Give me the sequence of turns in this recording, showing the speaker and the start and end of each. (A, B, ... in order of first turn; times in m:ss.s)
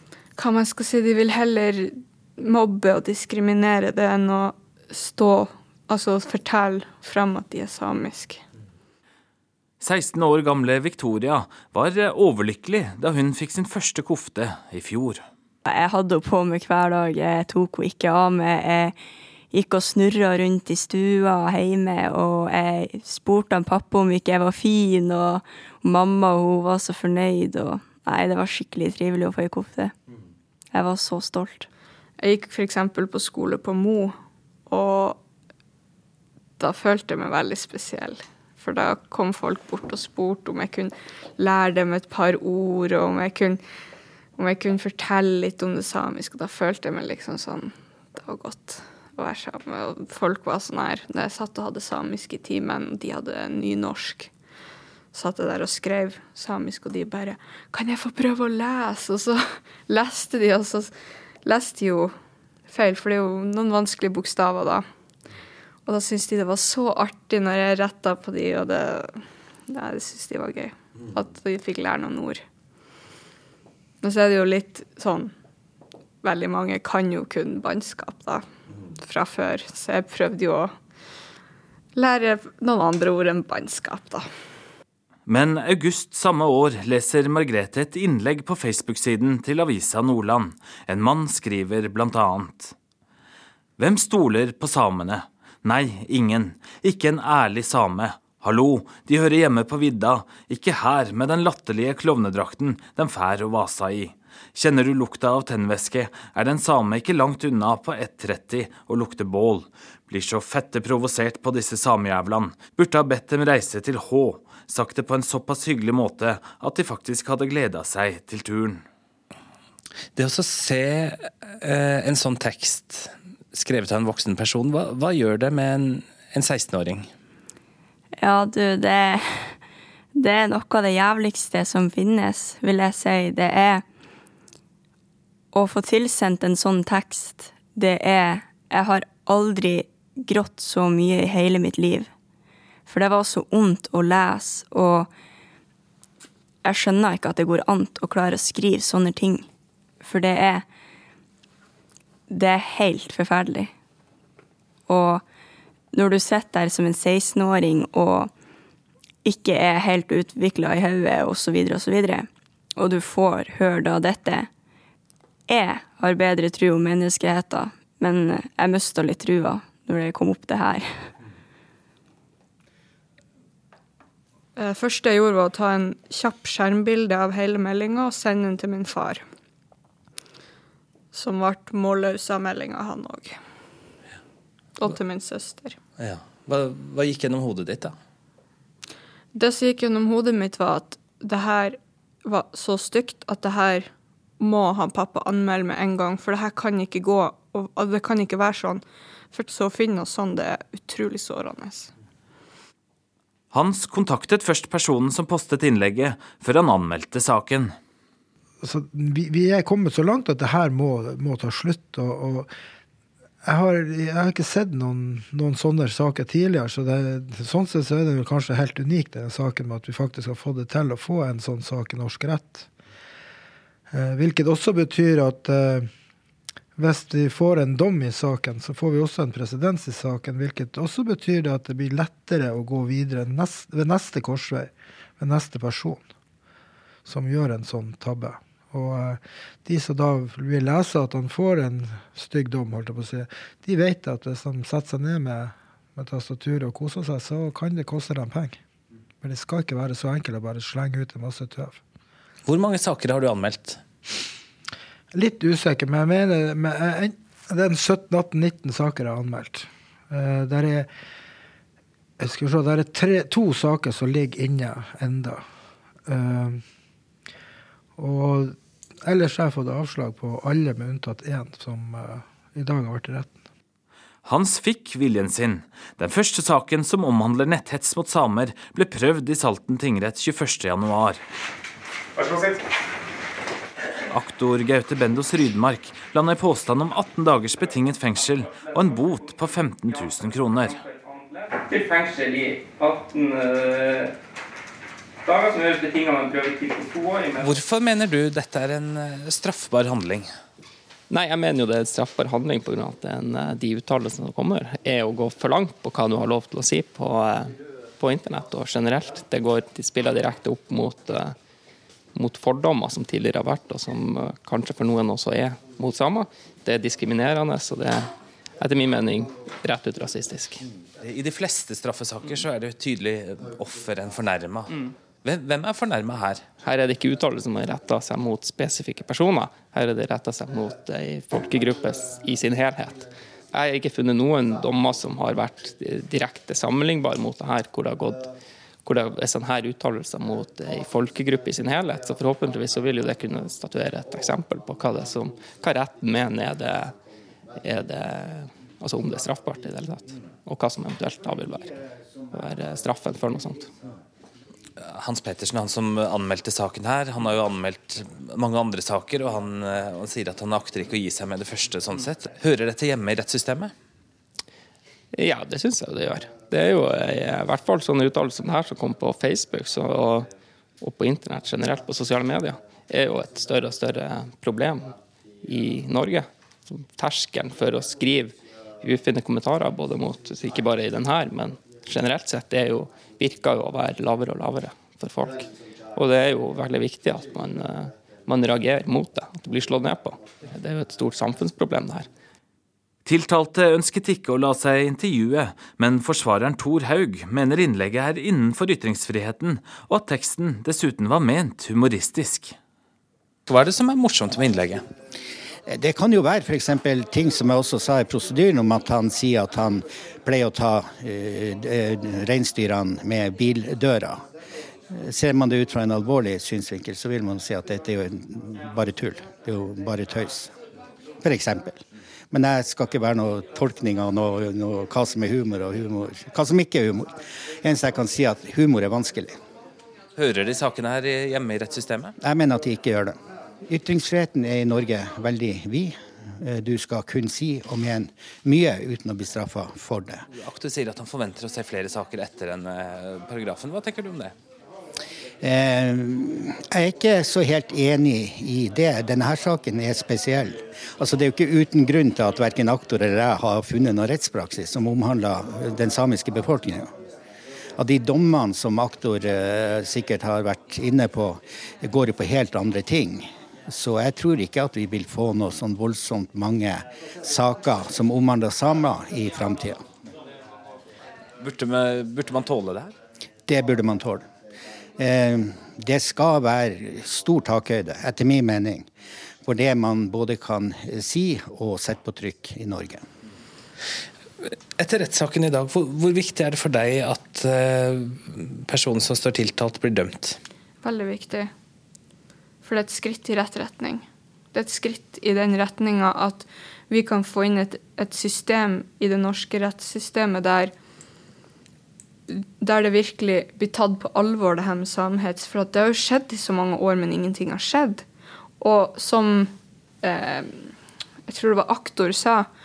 0:00.4-0:08.4 A
0:09.8-0:15.2 B
0:15.6-0:19.0 C
0:19.5-0:29.9 C
0:30.7-0:31.7 C
0:32.2-0:34.2 A
0:34.7-0:35.2 A
0:36.6-0:43.6 A
0:44.4-0:54.3 A
0:55.1-1:02.2 A
1:02.7-1:04.9 A
1:05.9-1:12.4 A
1:14.0-1:15.3 A
1:16.2-1:18.5 A
1:19.0-1:20.7 A
1:22.0-1:24.3 A
1:25.3-1:32.8 B
1:33.8-1:58.8 B
2:00.2-2:07.1 D
2:08.2-2:09.6 C
2:10.2-2:13.8 C
2:15.5-2:22.1 C
2:22.9-2:25.1 C
2:26.6-2:29.5 C
2:30.0-2:30.6 C
2:32.3-2:33.7 C
2:34.9-2:35.2 C
2:35.9-2:38.3 C
2:39.2-2:44.5 C
2:45.5-2:51.1 C
2:54.6-2:59.2 A
3:01.1-3:03.4 A
3:04.8-3:05.8 A
3:06.0-3:08.0 D
3:09.3-3:21.9 A
3:23.5-3:27.7 B
3:28.6-3:32.5 E
3:33.4-3:42.7 E
3:43.9-3:45.9 E
3:46.8-3:56.0 E
3:57.1-4:08.6 E
4:09.2-4:11.8 E
4:12.5-4:13.8 D
4:15.1-4:20.9 E
4:22.2-4:25.4 E
4:26.1-4:26.6 E
4:28.0-4:33.4 E
4:34.2-4:41.2 B
4:42.2-4:42.6 F
4:44.1-4:50.8 B
4:48.5-4:49.3 F
4:49.9-4:54.2 F
4:55.2-4:57.5 F
4:57.4-5:00.3 D
5:01.1-5:11.4 F
5:12.1-5:20.6 F
5:21.0-5:26.5 D
5:26.6-5:38.3 F
5:38.8-5:47.0 F
5:47.6-5:51.8 F
5:52.3-5:53.7 F
5:54.8-6:03.7 D
6:05.1-6:10.3 F
6:10.8-6:32.1 F
6:33.1-6:42.6 B
6:43.5-6:44.8 D
6:45.7-6:54.2 G
6:54.9-7:00.5 G
7:01.2-7:09.4 G
7:10.2-7:12.1 D
7:12.2-7:20.3 G
7:20.4-7:24.3 D
7:25.4-7:36.9 G
7:37.8-7:49.8 G
7:51.4-7:52.9 D
7:53.5-7:54.2 G
7:55.0-7:58.9 G
7:59.4-8:03.0 G
8:04.4-8:10.4 D
8:10.8-8:11.5 A
8:12.6-8:20.7 A
8:22.3-8:28.1 A
8:28.6-8:30.7 A
8:31.3-8:32.5 A